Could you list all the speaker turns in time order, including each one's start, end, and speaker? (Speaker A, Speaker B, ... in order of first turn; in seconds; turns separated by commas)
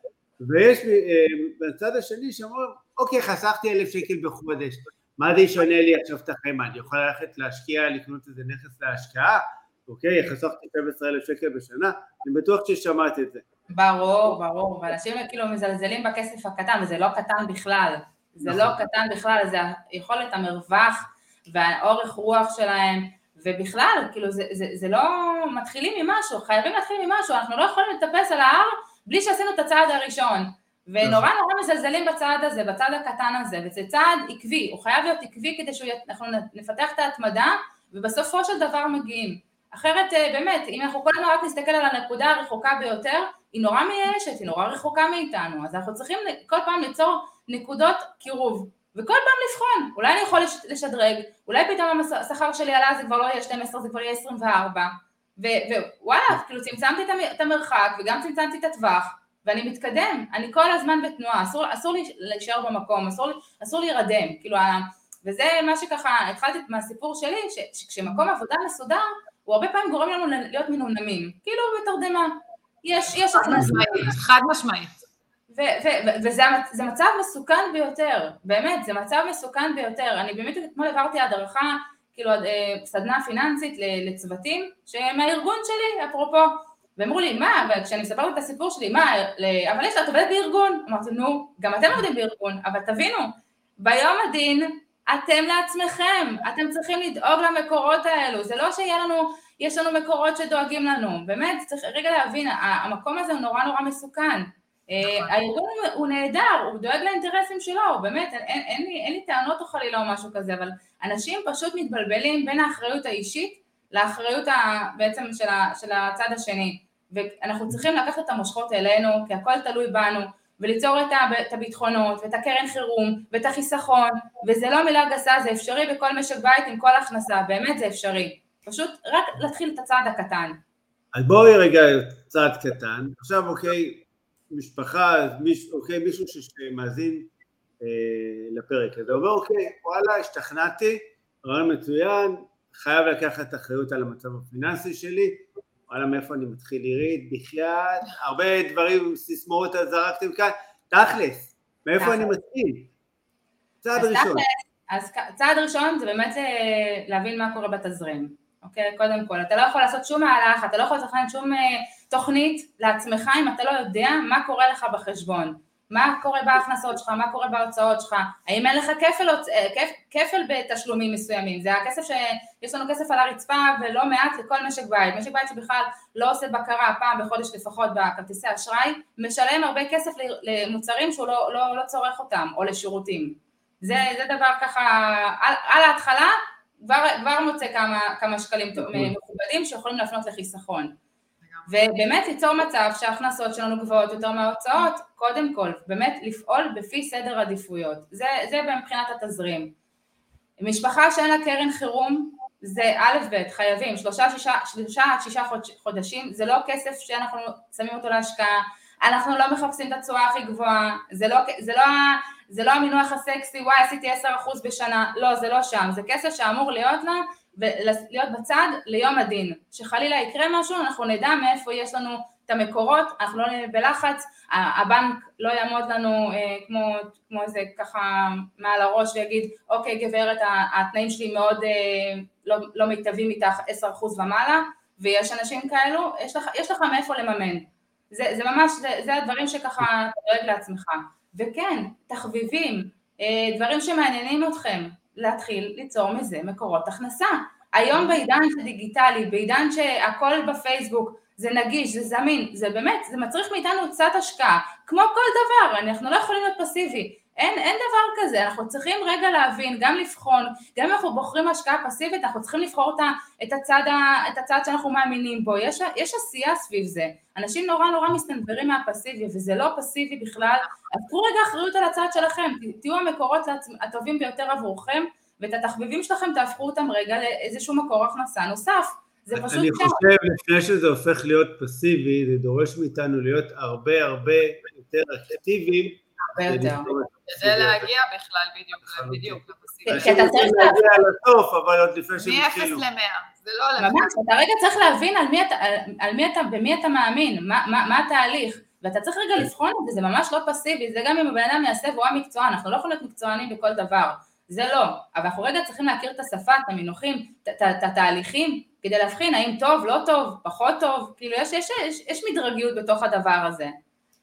Speaker A: 0.4-13.4, Speaker B: 13.7-74.1, Speaker A: 18.4-18.8, Speaker A: 31.0-31.3, Speaker C: 73.3-75.0, Speaker A: 73.5-73.8, Speaker B: 75.5-130.6, Speaker C: 105.0-105.3, Speaker A: 131.1-137.3, Speaker A: 137.8-152.9, Speaker B: 152.0-152.3, Speaker A: 153.8-154.4, Speaker B: 153.9-190.9, Speaker A: 188.8-189.1, Speaker C: 191.4-191.7, Speaker B: 191.7-199.7, Speaker B: 200.6-280.0, Speaker A: 279.3-287.9, Speaker B: 286.3-286.9, Speaker C: 287.3-290.2, Speaker A: 288.8-292.8, Speaker B: 289.8-291.0, Speaker C: 292.2-294.1, Speaker B: 293.8-313.7